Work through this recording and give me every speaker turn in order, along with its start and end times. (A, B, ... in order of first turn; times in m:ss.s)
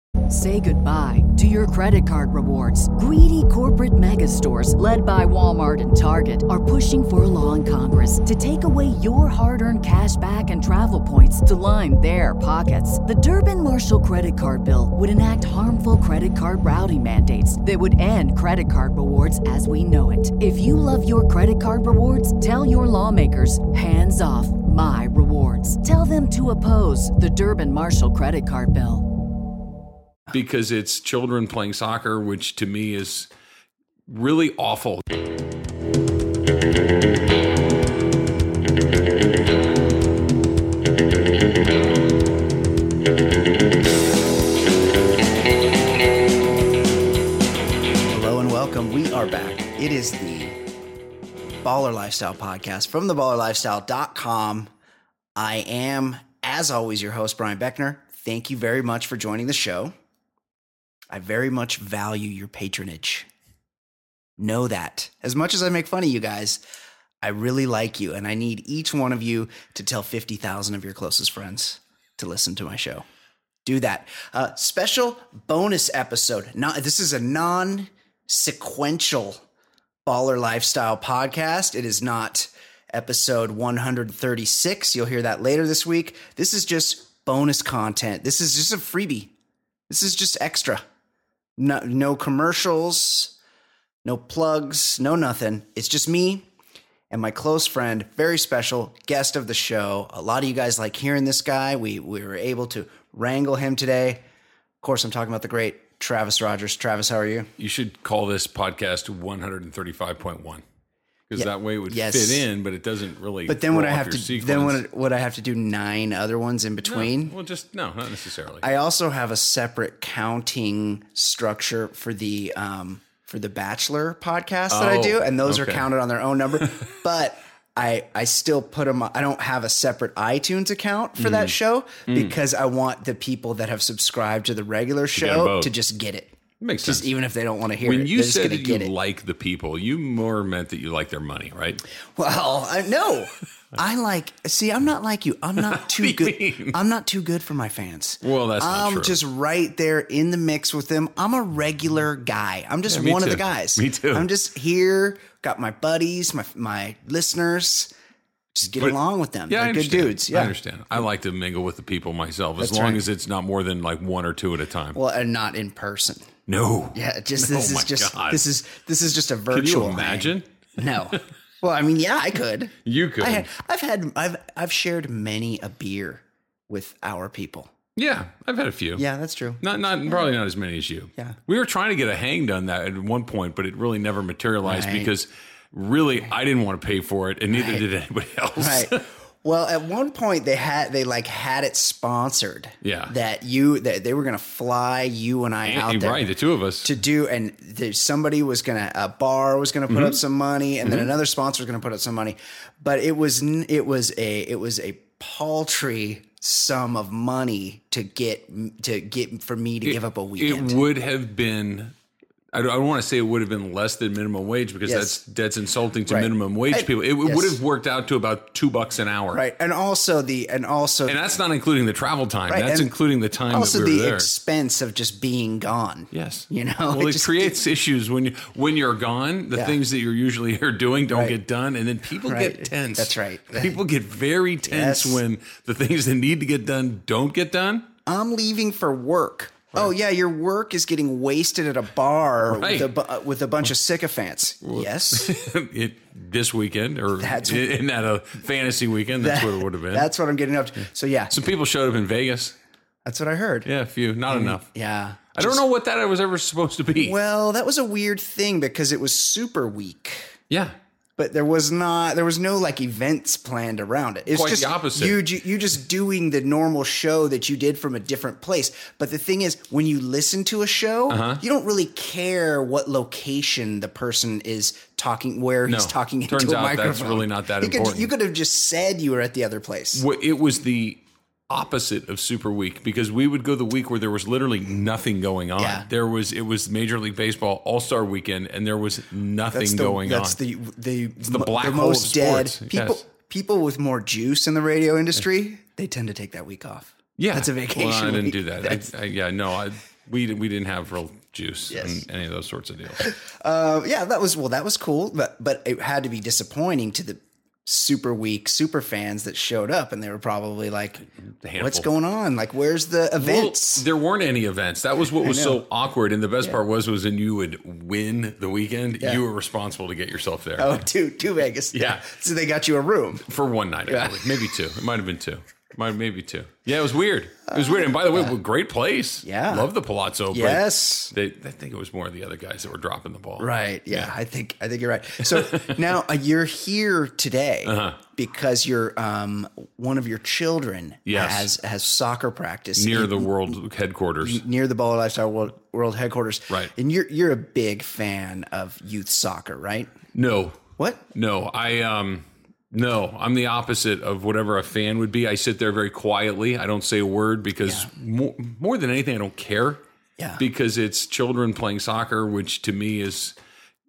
0:00.3-0:29.1 A
0:30.3-0:33.3 B
0:34.1-0:35.1 B
0:48.1-0:50.6 C
0:51.6-0:54.7 C
0:55.4-0:59.9 C
1:01.1-1:03.3 C
1:04.4-1:06.6 C
1:07.2-1:13.0 C
1:13.6-1:19.4 C
1:20.1-1:29.3 C
1:29.9-1:30.8 C
1:31.6-1:33.4 C
1:34.0-1:36.5 C
1:37.1-1:44.2 C
1:44.8-1:47.5 C
1:47.6-1:50.6 B
1:51.3-1:54.8 B
1:51.4-1:52.5 C
1:53.5-1:57.4 C
1:56.8-1:58.7 B
1:58.6-2:18.9 C
2:04.7-2:05.9 B
2:11.2-2:12.4 B
2:15.2-2:15.7 B
2:16.6-2:17.1 B
2:17.8-2:21.8 B
2:22.2-2:37.9 C
2:25.6-2:26.8 B
2:28.2-2:29.2 B
2:32.9-2:34.3 B
2:38.5-2:40.6 C
2:39.5-2:45.0 B
2:42.6-2:43.1 C
2:44.9-2:46.3 C
2:46.5-2:48.4 B
2:46.9-2:57.7 C
2:49.5-2:50.5 B
2:52.8-2:53.5 B
2:58.0-2:59.0 B
2:59.0-2:59.6 C
2:59.6-3:09.1 B
3:04.6-3:05.1 C
3:07.5-3:07.8 C
3:08.6-3:16.3 C
3:12.8-3:13.1 B
3:15.6-3:16.9 B
3:16.8-3:30.8 C
3:19.9-3:20.2 B
3:20.8-3:21.1 B
3:29.8-3:31.9 B
3:32.5-3:39.4 B
3:34.9-3:35.2 C
3:36.1-3:37.6 C
3:39.3-3:41.2 C
3:41.1-3:44.3 B
3:42.5-3:42.9 C
3:43.5-3:47.6 C
3:46.1-3:57.9 B
3:49.5-3:49.8 C
3:51.1-3:51.4 C
3:52.2-3:53.8 C
3:54.7-3:55.2 C
3:58.1-4:05.4 C
4:02.5-4:02.9 B
4:04.6-4:10.1 B
4:07.2-4:07.7 C
4:09.2-4:11.4 C
4:11.3-4:12.6 B
4:13.0-4:13.7 C
4:13.7-4:14.6 B
4:14.3-4:15.6 C
4:15.3-4:17.2 B
4:16.9-4:20.4 C
4:20.5-4:20.8 B
4:21.2-4:40.0 C
4:24.3-4:25.2 B
4:31.1-4:31.4 B
4:35.7-4:38.1 B
4:39.9-4:50.4 B
4:45.6-4:45.9 C
4:49.5-4:58.9 C
4:51.2-4:53.0 B
4:57.2-5:03.1 B
5:01.7-5:02.0 C
5:03.0-5:11.0 C
5:11.2-5:11.9 B
5:11.6-5:13.9 C
5:13.2-5:20.8 B
5:15.2-5:15.6 C
5:20.6-5:23.3 C
5:21.7-5:22.1 B
5:23.3-5:34.1 B
5:23.9-5:24.5 C
5:27.5-5:28.4 C
5:29.2-5:29.7 C
5:30.3-5:31.1 C
5:33.4-5:43.6 C
5:35.3-5:35.8 B
5:37.6-5:38.0 B
5:41.1-5:41.5 B
5:42.8-5:44.4 B
5:44.2-5:49.9 C
5:50.1-5:59.8 B
5:50.8-5:51.0 C
5:57.6-5:57.9 C
6:00.2-6:00.4 C
6:00.4-6:03.4 B